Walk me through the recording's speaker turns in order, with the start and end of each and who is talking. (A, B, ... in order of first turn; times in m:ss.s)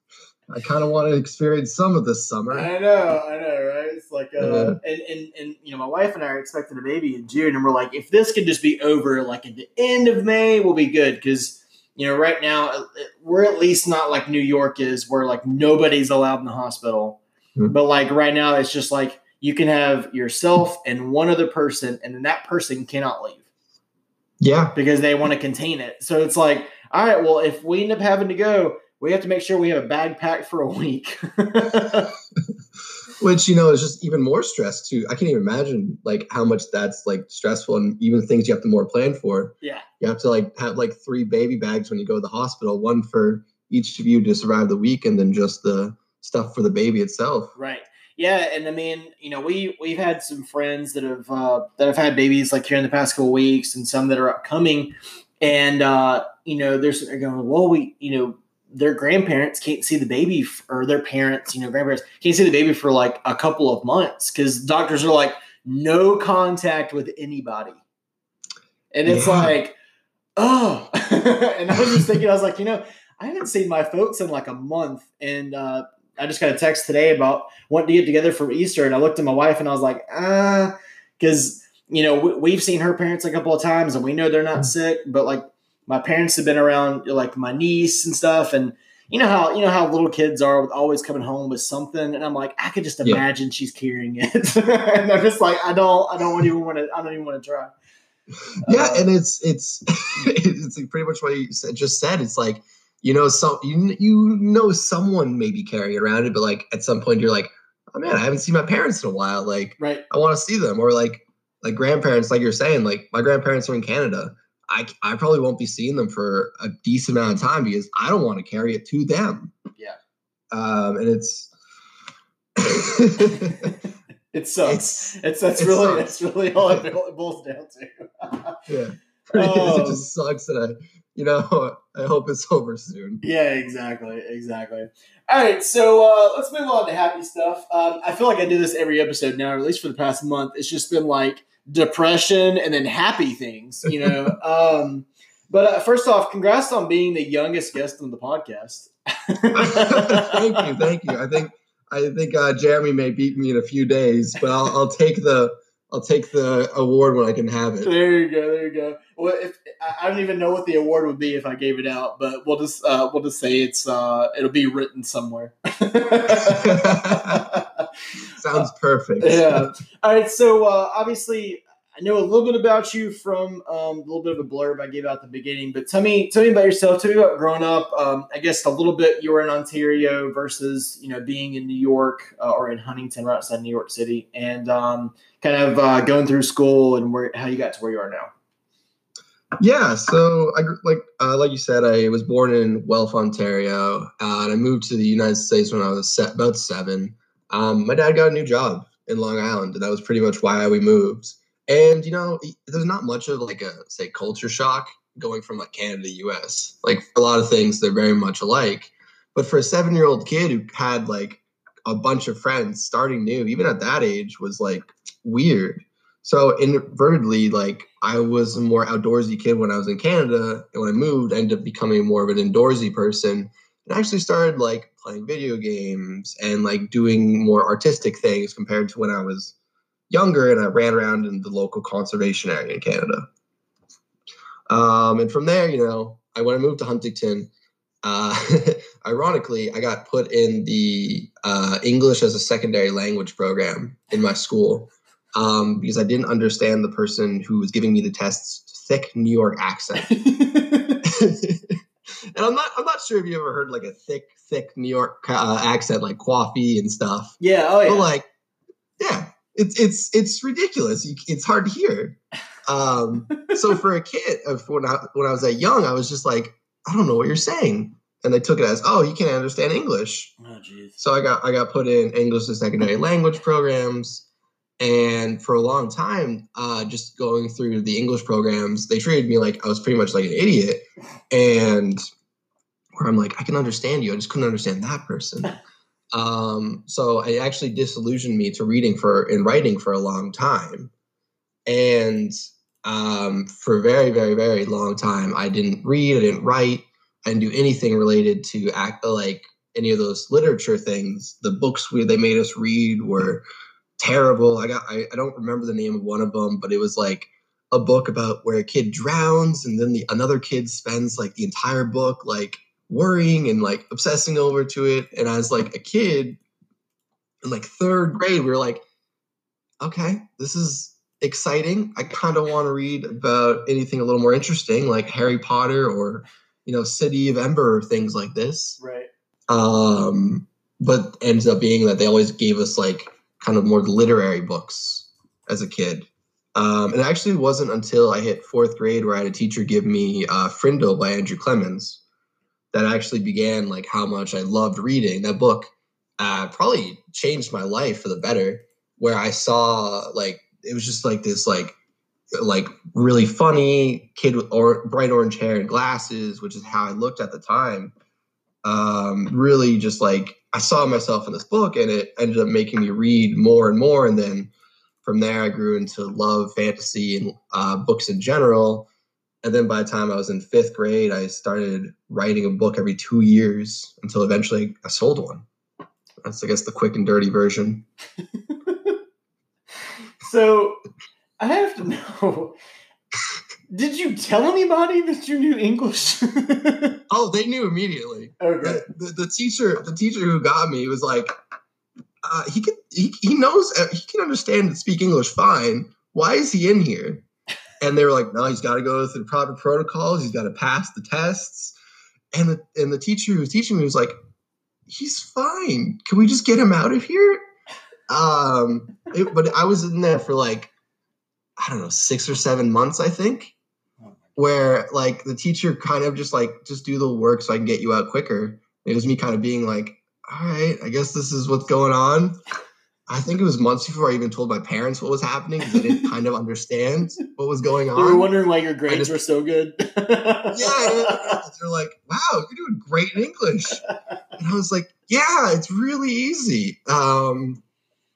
0:00.5-0:02.7 A
0:02.5-0:23.4 B
0:04.4-0:04.8 A
0:24.4-0:24.8 A
0:24.8-0:32.1 B
0:33.2-0:47.5 A
0:47.6-1:07.8 B
1:08.9-1:09.7 B
1:09.1-1:09.5 A
1:10.4-1:37.7 B
1:38.7-1:39.1 B
1:38.7-1:59.5 A
1:49.8-1:50.0 B
2:00.5-2:01.5 A
2:02.6-2:03.7 A
2:03.3-2:03.7 B
2:04.3-2:08.6 B
2:04.7-2:05.0 A
2:05.6-2:06.8 A
2:08.7-2:13.2 A
2:09.3-2:10.1 B
2:13.2-2:30.8 B
2:29.5-2:37.9 A
2:37.8-2:47.9 B
2:46.3-2:47.4 A
2:48.4-2:49.7 A
2:49.2-3:08.3 B
3:09.6-3:49.6 A
3:50.1-3:53.3 A
3:54.7-3:57.5 A
3:58.0-4:10.1 A
4:10.0-4:11.0 B
4:11.0-4:11.8 A
4:12.4-4:18.2 A
4:17.4-4:18.1 B
4:19.0-4:30.3 A
4:23.3-4:23.6 B
4:30.4-4:31.0 B
4:31.0-4:34.2 A
4:34.8-4:42.0 A
4:43.0-4:45.6 A
4:46.1-4:50.9 A
4:51.7-5:03.4 A
5:04.0-5:16.4 A
5:17.4-5:18.8 A
5:19.8-5:28.8 A
5:28.8-5:29.1 B
5:29.5-5:42.0 A
5:42.7-5:51.8 A
5:52.4-5:57.9 A
5:58.6-6:04.5 A
6:05.0-6:08.9 A
6:09.4-6:15.4 A
6:16.2-6:17.8 A
6:18.5-6:19.0 B
6:20.2-6:20.8 B
6:21.4-6:22.6 B
6:23.7-6:27.0 B
6:27.1-6:31.3 A
6:28.4-6:28.8 B
6:32.2-6:37.2 A
6:37.8-6:41.8 A
6:42.3-6:44.2 A
6:44.9-6:47.4 A
6:48.1-6:50.7 A
6:51.6-6:53.5 A
6:54.4-7:02.4 A
7:03.1-7:08.3 A
7:08.0-7:11.4 B
7:08.9-7:09.2 A
7:10.5-7:13.8 A
7:14.4-7:17.6 A